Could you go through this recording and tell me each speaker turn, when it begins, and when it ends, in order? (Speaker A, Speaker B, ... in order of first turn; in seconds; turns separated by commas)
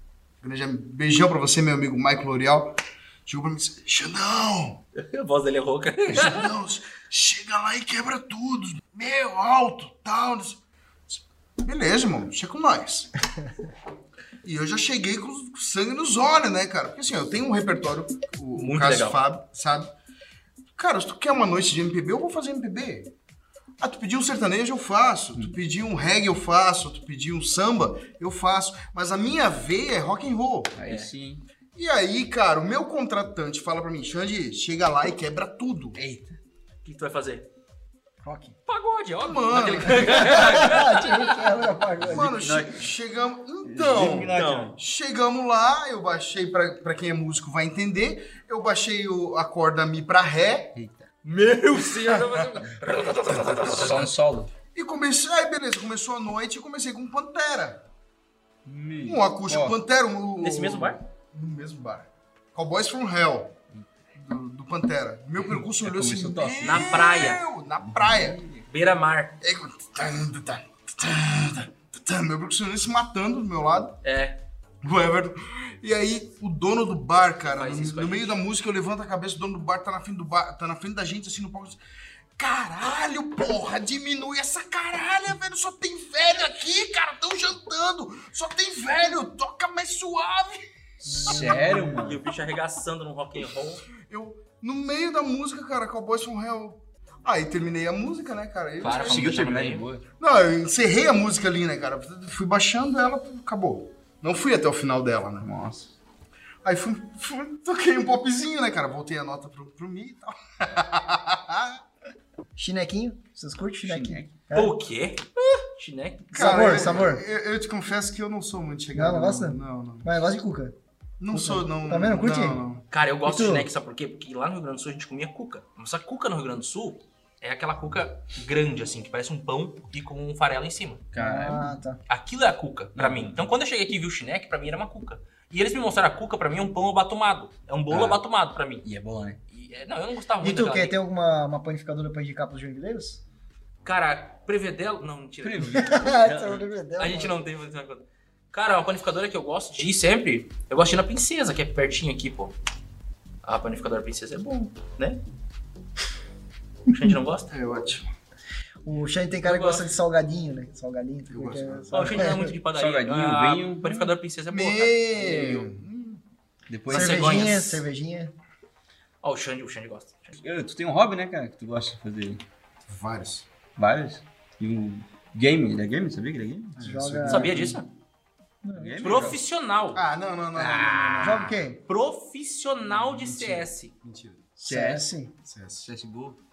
Speaker A: 0.4-4.8, Speaker B: 5.0-6.5, Speaker A: 6.1-13.1, Speaker A: 14.4-19.9, Speaker B: 18.6-19.2, Speaker A: 20.8-23.1, Speaker A: 23.8-30.7, Speaker C: 30.7-31.4, Speaker B: 30.9-31.1, Speaker A: 31.7-36.0, Speaker C: 35.9-36.4, Speaker B: 36.8-37.5, Speaker D: 38.2-38.5, Speaker B: 38.7-41.3, Speaker A: 39.2-40.6, Speaker D: 40.1-42.5, Speaker C: 42.0-42.9, Speaker A: 42.0-50.8, Speaker C: 43.6-44.8, Speaker B: 44.3-44.7, Speaker B: 51.2-54.1, Speaker A: 51.9-52.6, Speaker C: 53.7-54.5, Speaker A: 54.7-57.8, Speaker C: 58.6-59.8, Speaker A: 59.0-63.5, Speaker B: 60.4-61.0, Speaker A: 64.1-68.4, Speaker C: 65.5-68.6, Speaker B: 66.6-67.4, Speaker B: 68.7-69.3, Speaker A: 69.4-74.0, Speaker B: 74.0-74.4, Speaker A: 74.8-81.8, Speaker B: 77.4-78.4, Speaker A: 82.4-91.3, Speaker D: 91.0-92.0, Speaker C: 91.1-92.2, Speaker B: 91.2-93.8, Speaker A: 94.0-99.4, Speaker B: 98.8-99.8, Speaker C: 98.8-100.0, Speaker A: 100.2-105.5, Speaker C: 105.4-105.9, Speaker A: 106.6-111.8, Speaker D: 112.5-114.7, Speaker C: 113.8-114.3, Speaker B: 114.5-117.0, Speaker A: 116.3-120.1, Speaker D: 116.3-117.2, Speaker D: 118.9-120.7, Speaker A: 121.2-122.8, Speaker D: 121.3-122.6, Speaker B: 122.9-131.0, Speaker D: 123.3-123.7, Speaker C: 131.1-131.8, Speaker D: 131.2-132.0, Speaker B: 132.1-138.8, Speaker C: 132.9-133.4, Speaker C: 137.9-138.2, Speaker C: 138.8-139.4, Speaker B: 139.5-141.0, Speaker D: 140.4-143.2, Speaker B: 143.8-146.2, Speaker C: 145.4-146.6, Speaker D: 145.7-147.4, Speaker B: 147.0-152.5, Speaker B: 153.4-155.2, Speaker B: 156.9-157.5, Speaker A: 157.5-158.1, Speaker D: 158.8-162.5, Speaker B: 159.4-159.8, Speaker A: 161.3-162.2, Speaker B: 161.9-165.7, Speaker C: 162.7-164.2, Speaker A: 164.5-166.2, Speaker C: 166.7-167.4, Speaker B: 166.9-167.8, Speaker D: 166.9-168.3, Speaker B: 169.2-170.4, Speaker C: 170.4-172.4, Speaker A: 172.9-173.4, Speaker C: 173.8-177.8, Speaker A: 176.8-177.7, Speaker D: 176.8-177.5, Speaker B: 177.3-177.9, Speaker D: 178.6-179.1, Speaker C: 178.7-179.4, Speaker B: 179.0-180.0, Speaker A: 179.9-181.5, Speaker C: 180.5-181.6, Speaker D: 181.2-181.8, Speaker B: 181.8-183.9, Speaker A: 183.1-184.5, Speaker C: 183.2-183.6, Speaker C: 184.6-185.1, Speaker D: 184.7-185.3, Speaker A: 185.4-185.9, Speaker C: 185.8-186.4